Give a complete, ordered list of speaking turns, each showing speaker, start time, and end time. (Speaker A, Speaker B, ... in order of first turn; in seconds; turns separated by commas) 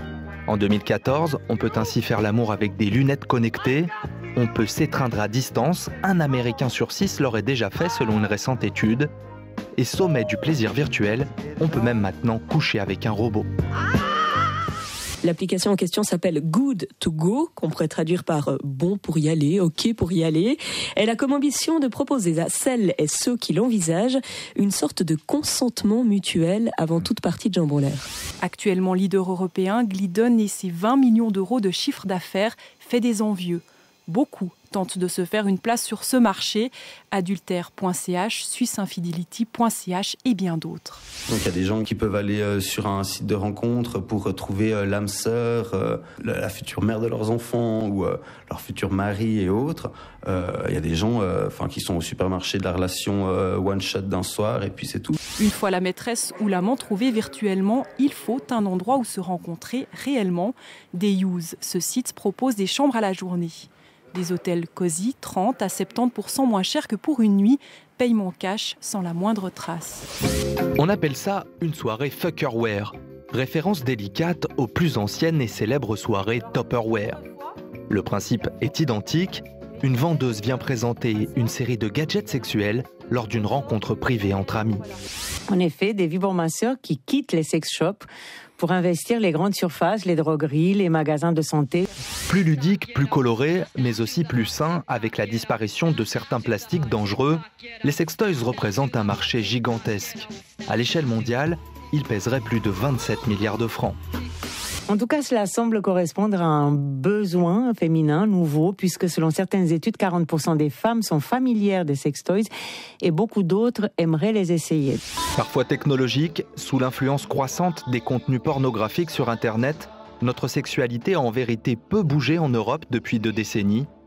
Speaker A: 0.5-9.1, Speaker A: 9.8-13.4, Speaker B: 15.2-28.1, Speaker C: 28.4-41.0, Speaker D: 41.3-55.2, Speaker C: 55.4-70.1, Speaker A: 70.8-77.2, Speaker A: 77.9-84.9, Speaker E: 85.5-88.0, Speaker E: 88.6-91.9, Speaker A: 92.3-104.0, Speaker E: 104.9-112.5, Speaker E: 113.0-115.0, Speaker A: 115.3-123.9